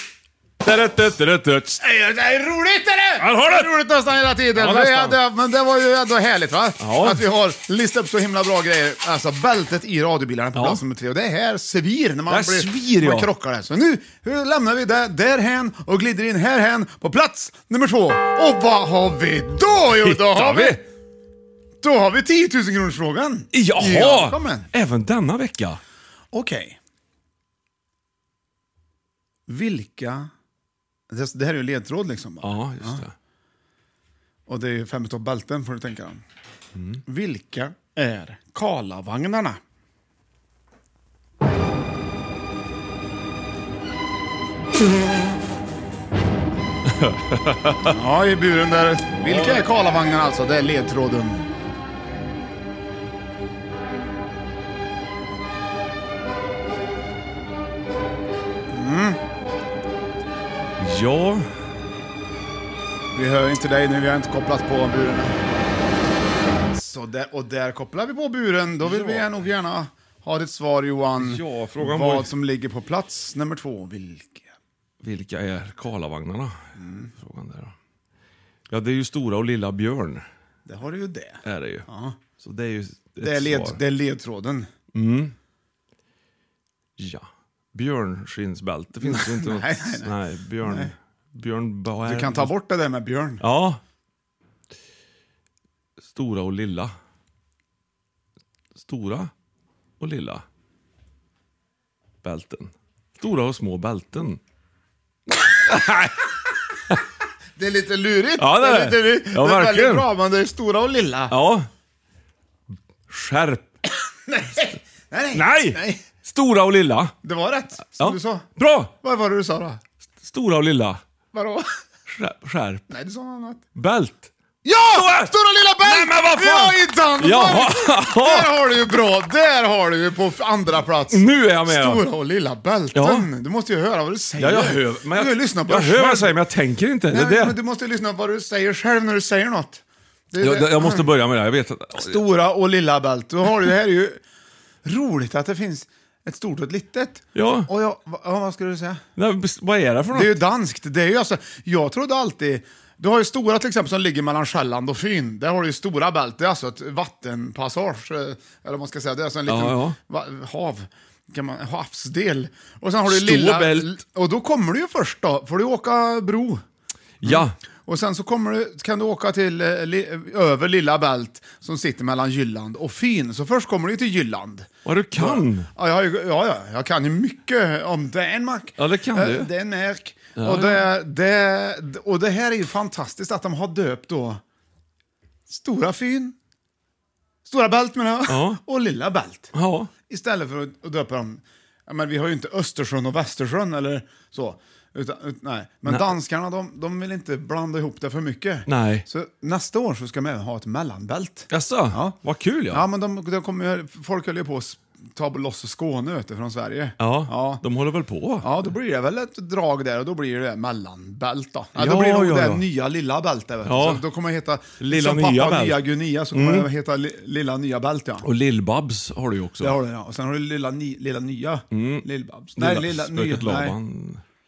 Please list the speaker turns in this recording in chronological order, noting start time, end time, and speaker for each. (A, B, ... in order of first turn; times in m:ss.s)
0:00.6-0:01.8 A
0:01.8-0:20.8 B
0:03.2-0:03.7 A
0:04.5-0:05.2 A
0:06.8-0:07.2 A
0:10.5-0:10.8 A
0:12.3-0:13.3 A
0:20.0-0:20.8 A
0:21.8-0:24.7 B
0:23.5-0:25.8 A
0:26.3-0:26.8 B
0:29.5-0:30.3 B
0:31.1-0:33.0 B
0:32.4-0:33.1 A
0:34.5-0:36.2 B
0:36.8-0:37.0 A
0:37.1-0:39.6 B
0:46.9-0:48.0 A
0:47.8-0:51.5 B
0:49.1-0:49.6 A
0:58.7-0:59.2 B
1:00.8-1:01.5 A
1:03.1-1:05.4 B
1:06.7-1:14.5 B
1:08.8-1:09.4 A
1:11.2-1:12.3 A
1:15.0-1:16.6 A
1:16.8-1:17.1 B
1:17.2-1:17.7 A
1:18.7-1:20.2 A
1:20.6-1:22.2 B
1:21.4-1:21.8 A
1:22.4-1:23.8 A
1:23.2-1:24.7 B
1:24.9-1:25.3 A
1:27.0-1:32.5 A
1:29.0-1:30.9 B
1:32.0-1:33.4 B
1:33.4-1:33.8 A
1:36.1-1:36.9 A
1:38.8-1:39.3 A
1:40.0-1:40.4 A
1:42.2-1:44.4 A
1:45.4-1:46.2 A
1:47.6-1:51.4 B
1:48.4-1:50.1 A
1:51.3-1:51.7 A
1:53.1-1:53.7 A
1:54.3-1:56.0 B
1:55.3-1:57.1 A
1:57.2-1:58.5 B
1:58.0-1:58.9 A
1:59.0-1:59.8 B
2:00.2-2:01.0 A
2:01.3-2:01.8 B
2:02.1-2:02.8 A
2:02.9-2:03.6 B
2:03.8-2:04.3 A
2:04.6-2:16.3 B
2:04.8-2:08.6 A
2:11.1-2:12.0 A
2:12.9-2:13.3 A
2:14.4-2:17.6 A
2:17.1-2:21.1 B
2:20.4-2:22.2 A
2:22.0-2:24.2 B
2:24.8-2:29.0 B
2:27.3-2:27.7 A
2:29.2-2:30.4 A
2:30.1-2:46.6 B
2:39.5-2:40.0 A
2:43.0-2:44.0 A
2:47.2-2:47.6 A
2:47.2-3:04.4 B
2:54.8-2:55.7 A
2:58.8-2:59.5 A
3:00.4-3:00.8 A
3:05.5-3:06.4 B
3:07.4-3:09.5 B
3:08.3-3:08.6 A
3:09.5-3:09.9 A
3:10.1-3:22.2 B
3:15.8-3:16.1 A
3:18.7-3:19.0 A
3:21.5-3:22.8 A
3:22.7-3:27.6 B
3:27.0-3:28.5 A
3:28.4-3:38.3 B
3:31.8-3:32.6 A
3:33.6-3:34.0 A
3:34.8-3:36.7 A
3:38.2-3:39.8 A
3:39.6-3:43.8 B
3:41.7-3:44.2 A